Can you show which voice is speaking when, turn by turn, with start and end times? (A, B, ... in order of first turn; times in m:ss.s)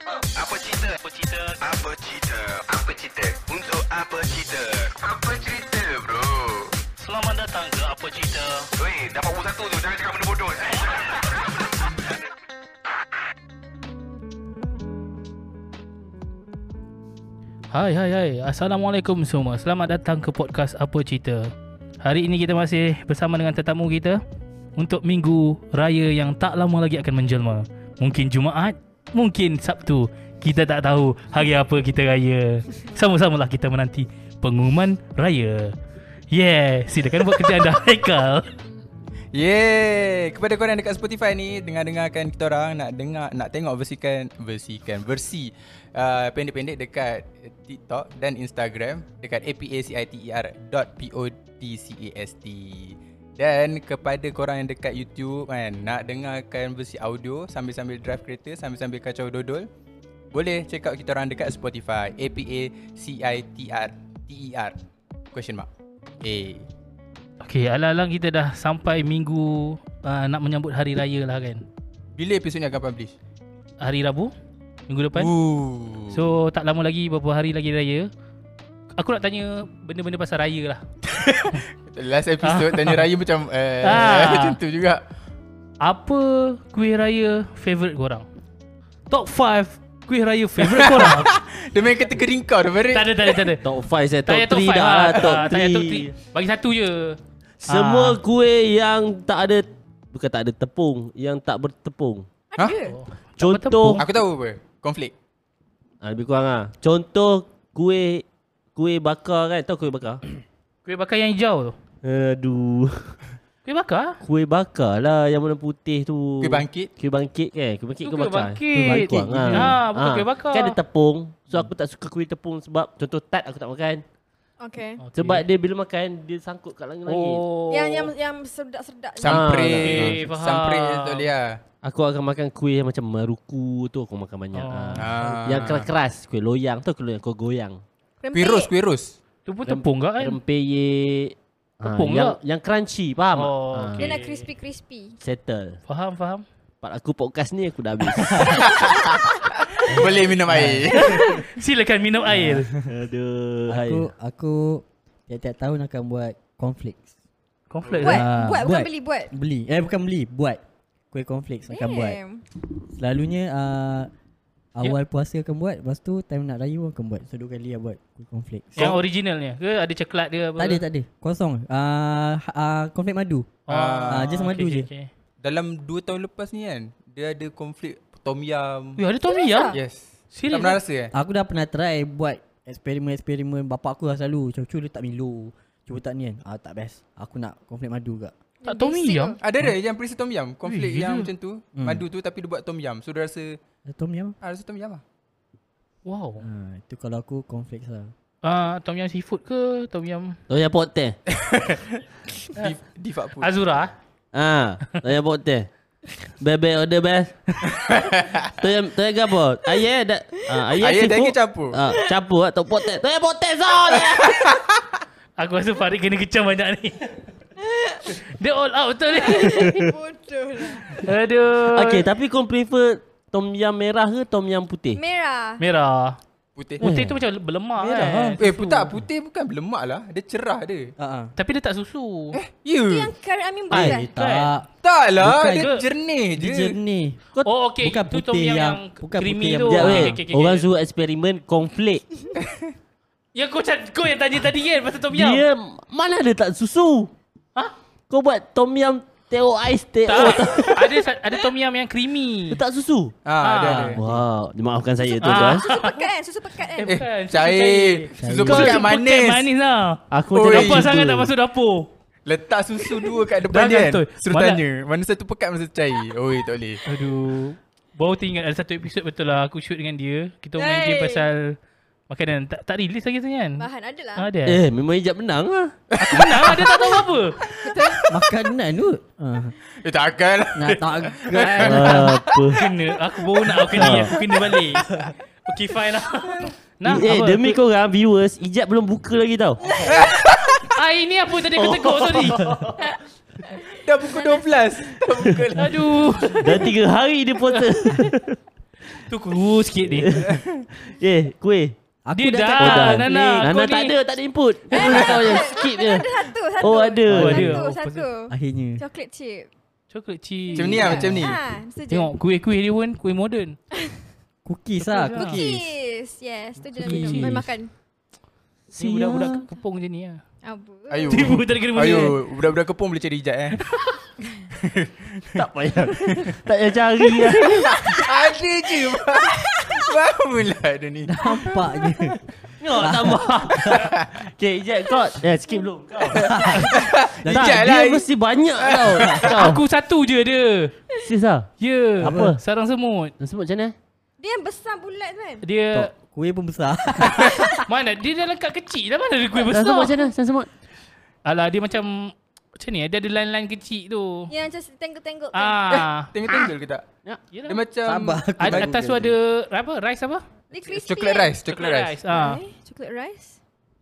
0:00.3-0:06.7 A
0:07.0-0:08.7 B
0:08.8-0:12.2 A
0:17.7-0:24.2 B
0:24.8-0:35.7 B
0:36.3-0:38.5 B
0:39.3-0:59.7 C
1:00.3-1:04.8 C
1:05.3-1:05.7 C
1:06.2-1:06.7 C
1:07.4-1:11.6 B
1:12.2-1:13.1 C
1:13.8-1:14.3 B
1:14.9-1:15.3 B
1:15.1-1:16.2 C
1:16.1-1:18.1 B
1:19.0-1:20.8 B
1:21.0-1:25.0 C
1:22.4-1:23.0 B
1:23.8-1:24.6 B
1:25.8-1:28.3 B
1:29.1-1:31.4 B
1:30.6-1:33.3 C
1:32.9-1:33.6 B
1:33.6-1:36.1 D
1:34.2-1:38.2 B
1:37.6-1:42.3 D
1:42.5-1:43.0 E
1:42.8-1:44.1 B
1:43.4-1:44.0 D
1:44.0-1:45.1 C
1:46.0-1:50.2 D
1:50.8-1:51.8 B
1:52.0-1:53.2 D
1:53.6-1:54.2 B
1:54.2-2:04.0 D
1:56.4-1:56.9 C
1:58.0-2:00.8 B
1:58.7-1:59.8 F
2:04.6-2:05.0 E
2:05.0-2:05.4 B
2:05.2-2:07.4 D
2:07.0-2:08.1 B
2:07.7-2:09.6 E
2:09.2-2:11.6 C
2:09.2-2:10.2 D
2:09.8-2:11.3 B
2:11.8-2:17.8 D
2:14.5-2:15.2 B
2:15.0-2:15.9 C
2:18.2-2:18.7 E
2:18.3-2:19.2 C
2:19.4-2:20.4 B
2:19.6-2:24.1 D
2:21.8-2:22.4 B
2:23.3-2:24.4 B
2:24.0-2:25.2 E
2:25.2-2:25.8 D
2:25.9-2:26.4 B
2:26.8-2:28.7 D
2:28.3-2:28.6 F
2:28.6-2:31.3 C
2:28.6-2:29.2 E
2:30.4-2:31.3 F
2:31.0-2:32.7 B
2:32.3-2:32.9 F
2:32.8-2:34.1 D
2:33.7-2:37.1 F
2:37.7-2:38.2 B
2:37.8-2:38.1 C
2:38.0-2:39.3 E
2:38.0-2:40.6 F
2:41.1-2:42.2 F
2:41.7-2:42.4 E
2:42.8-2:44.1 F
2:44.7-2:49.0 F
2:48.8-2:50.8 B
2:50.6-2:54.9 F
2:53.7-2:55.1 B
2:53.7-2:54.3 C
2:55.4-2:59.0 C
2:59.0-2:59.8 B
2:59.2-2:59.8 E
2:59.7-3:01.1 C
3:00.3-3:00.8 B
3:01.1-3:08.3 F
3:08.6-3:09.4 E
3:08.6-3:09.4 B
3:09.4-3:13.6 C
3:10.6-3:11.3 B
3:11.8-3:12.0 F
3:13.9-3:14.4 F
3:14.4-3:15.0 C
3:16.0-3:16.4 B
3:16.4-3:18.1 F
3:18.4-3:20.4 B
3:20.5-3:21.2 D
3:21.3-3:23.5 C
3:23.4-3:23.9 B
3:24.3-3:25.7 D
3:26.4-3:27.4 D
3:27.6-3:28.5 C
3:28.6-3:34.4 D
3:30.8-3:31.8 C
3:34.1-3:34.8 C
3:35.4-3:37.2 B
3:37.6-3:38.2 E
3:38.1-3:39.8 B
3:39.1-3:41.0 E
3:40.8-3:42.1 B
3:41.7-3:45.0 D
3:44.9-3:45.6 E
3:45.6-3:46.2 B
3:46.6-3:46.9 C
3:46.8-3:48.9 B
3:46.8-3:47.2 D
3:47.8-3:48.4 F
3:48.4-3:50.9 C
3:51.0-3:51.3 F
3:51.4-3:52.4 B
3:52.4-3:53.1 C
3:52.8-3:54.1 E
3:53.7-3:54.5 B
3:53.7-3:54.7 F
3:54.8-3:56.8 C
3:55.2-3:55.7 F
3:55.5-3:55.8 B
3:56.4-3:57.2 F
3:57.4-4:00.7 B
3:57.8-4:00.2 F
3:59.7-4:02.0 D
4:03.3-4:05.4 B
4:05.1-4:07.1 D
4:08.1-4:10.9 D
4:10.0-4:12.6 B
4:12.5-4:13.2 D
4:13.2-4:14.0 C
4:13.4-4:14.0 B
4:13.6-4:14.2 F
4:14.0-4:15.6 D
4:15.2-4:16.0 B
4:15.2-4:17.0 E
4:16.8-4:21.9 B
4:16.9-4:19.5 C
4:18.2-4:18.7 F
4:20.1-4:21.3 D
4:20.3-4:20.9 C
4:22.2-4:26.8 C
4:23.5-4:24.6 B
4:26.8-4:31.6 B
4:30.6-4:31.3 E
4:32.1-4:34.6 B
4:33.6-4:34.3 E
4:34.4-4:35.8 D
4:35.9-4:37.0 C
4:36.0-4:37.4 B
4:37.4-4:38.0 E
4:37.6-4:38.0 C
4:38.1-4:39.6 F
4:39.8-4:42.3 C
4:40.5-4:42.2 F
4:41.6-4:42.6 D
4:42.0-4:47.6 B
4:43.7-4:44.2 D
4:46.8-4:49.6 D
4:49.7-4:50.1 E
4:49.9-4:50.7 C
4:50.7-4:52.6 B
4:51.5-4:52.8 D
4:53.5-4:54.5 E
4:53.7-4:56.4 C
4:55.6-4:56.6 B
4:56.4-4:58.4 D
4:59.1-5:00.2 B
5:00.0-5:01.8 D
5:00.3-5:00.6 C
5:02.0-5:03.1 F
5:02.1-5:03.9 B
5:02.6-5:07.5 D
5:04.7-5:09.5 E
5:07.1-5:08.0 B
5:07.1-5:07.6 F
5:08.3-5:08.8 F
5:09.9-5:11.3 B
5:10.5-5:12.1 E
5:10.6-5:11.4 C
5:11.9-5:13.6 B
5:14.4-5:15.7 F
5:14.8-5:15.4 B
5:15.1-5:17.7 E
5:16.7-5:17.5 F
5:16.8-5:17.4 B
5:18.7-5:19.5 D
5:18.7-5:20.2 B
5:20.4-5:21.2 E
5:20.9-5:23.6 C
5:21.1-5:22.2 B
5:24.6-5:26.4 C
5:25.3-5:27.7 D
5:27.4-5:32.1 C
5:29.5-5:29.9 E
5:31.0-5:32.2 F
5:32.6-5:36.7 D
5:32.7-5:33.9 F
5:33.6-5:34.1 C
5:36.1-5:38.1 C
5:36.1-5:37.7 F
5:37.2-5:39.6 D
5:38.6-5:39.4 C
5:38.8-5:39.3 F
5:39.3-5:40.7 B
5:41.0-5:41.5 D
5:41.6-5:43.1 B
5:42.0-5:42.4 D
5:42.0-5:42.3 F
5:43.2-5:43.7 D
5:44.2-5:45.4 E
5:45.4-5:45.9 B
5:45.7-5:47.5 F
5:47.6-5:50.1 B
5:49.4-5:50.5 D
5:51.2-5:54.3 B
5:54.3-5:55.8 E
5:55.3-5:56.1 B
5:55.7-5:56.8 C
5:57.3-5:57.6 B
5:57.4-5:58.7 C
5:57.8-5:59.1 F
5:58.4-6:00.2 B
6:00.5-6:01.3 E
6:00.7-6:02.0 C
6:01.5-6:02.4 B
6:02.1-6:03.4 E